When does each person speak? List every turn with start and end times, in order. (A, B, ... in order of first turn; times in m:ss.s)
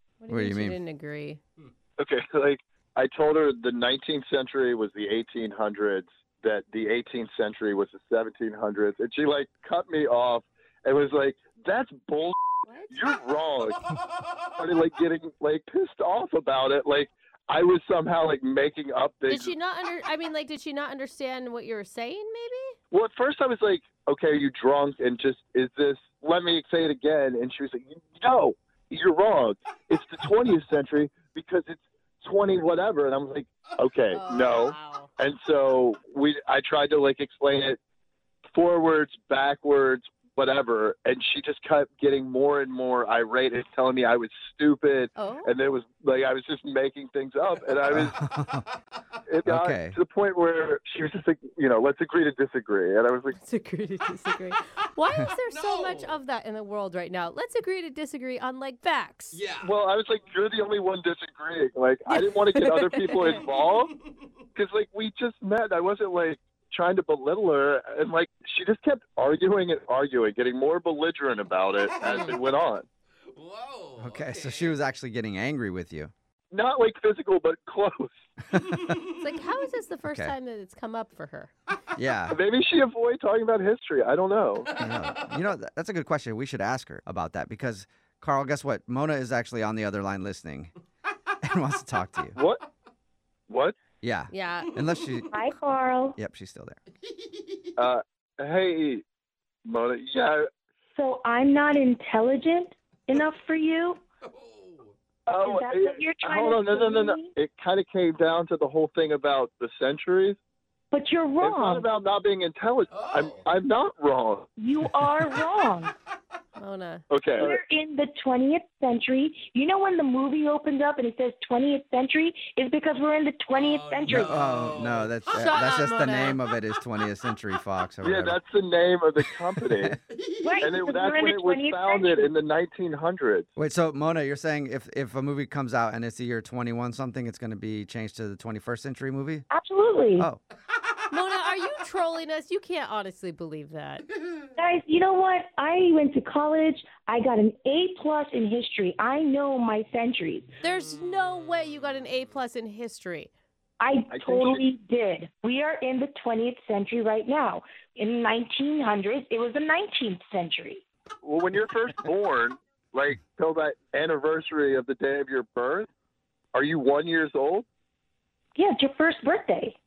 0:00.2-0:01.4 A
0:00.3-0:00.8 B
0:02.0-0:13.8 C
0:12.6-0:12.9 A
0:13.6-0:14.6 D
0:14.6-0:19.5 C
0:19.3-0:22.8 A
0:22.9-0:37.8 C
0:34.1-0:35.1 A
0:38.5-0:48.1 C
0:45.2-0:45.5 A
0:47.9-0:48.6 B
0:48.5-0:49.0 D
0:49.3-0:53.4 C
0:49.4-0:50.0 B
0:53.3-0:59.4 A
0:55.5-0:56.2 D
0:59.3-0:59.7 D
0:59.6-1:03.9 C
1:02.1-1:03.4 A
1:03.2-1:04.3 D
1:04.5-1:12.8 C
1:11.7-1:12.4 D
1:13.3-1:14.8 D
1:14.0-1:16.1 B
1:16.5-1:18.2 C
1:18.5-1:18.9 B
1:18.6-1:19.1 D
1:19.1-1:21.5 A
1:20.0-1:20.3 B
1:22.0-1:22.4 B
1:22.3-1:24.8 C
1:24.6-1:25.4 D
1:24.8-1:30.7 B
1:31.4-1:32.4 B
1:32.4-1:32.6 C
1:33.5-1:33.7 C
1:34.0-1:35.4 B
1:34.3-1:34.7 A
1:34.7-1:35.3 D
1:35.3-1:36.2 E
1:36.2-1:36.8 B
1:37.0-1:37.8 D
1:37.8-1:39.0 C
1:39.6-1:40.5 C
1:41.0-1:44.0 E
1:44.2-1:44.9 D
1:45.3-1:50.4 C
1:45.4-1:47.3 E
1:50.9-1:51.8 E
1:51.4-1:54.5 C
1:52.9-1:53.5 D
1:54.6-1:55.9 E
1:56.6-1:57.0 A
1:57.1-1:57.6 C
1:57.3-2:04.7 E
2:03.5-2:05.5 D
2:04.1-2:08.4 B
2:05.3-2:06.4 A
2:08.0-2:10.0 C
2:09.6-2:10.0 B
2:10.1-2:10.8 D
2:10.4-2:12.3 E
2:10.6-2:13.5 C
2:13.6-2:19.5 B
2:19.5-2:20.3 E
2:21.1-2:24.0 A
2:24.1-2:24.5 D
2:24.6-2:30.5 E
2:30.6-2:33.3 A
2:30.7-2:32.2 D
2:33.8-2:40.8 E
2:34.1-2:34.6 C
2:41.2-2:45.9 C
2:46.5-2:47.6 C
2:48.5-2:49.8 E